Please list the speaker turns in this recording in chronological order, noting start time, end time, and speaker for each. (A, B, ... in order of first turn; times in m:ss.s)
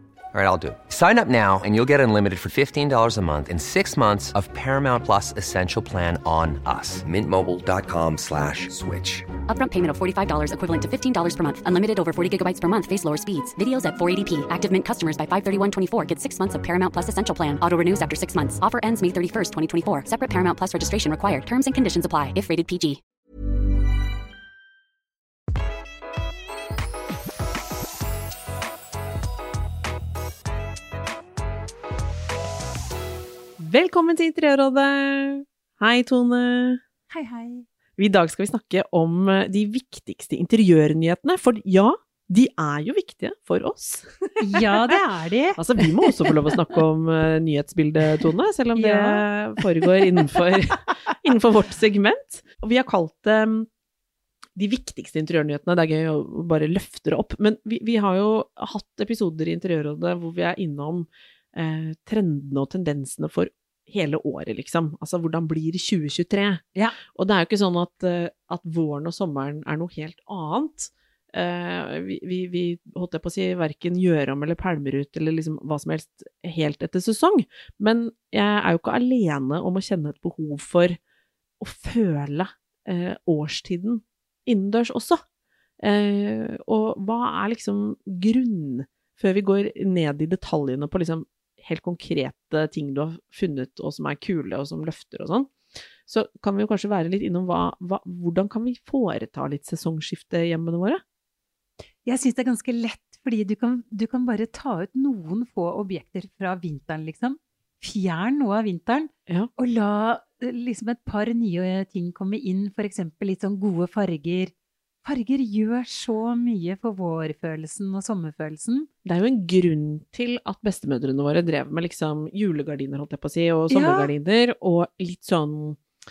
0:00.3-0:09.3 A
0:09.5-0:23.0 B
0:33.6-0:36.8 C
0:37.1-0:37.7 D
0:38.0-0:44.9 C
0:44.4-0:46.5 D
0:45.6-0:53.7 C
0:48.2-0:50.1 D
0:54.6-1:21.0 C
1:21.6-1:25.2 C
1:25.8-1:35.5 C
1:36.1-1:41.0 C
1:42.0-1:54.5 D
1:55.0-1:58.9 D
1:59.0-2:05.8 C
2:03.7-2:04.1 D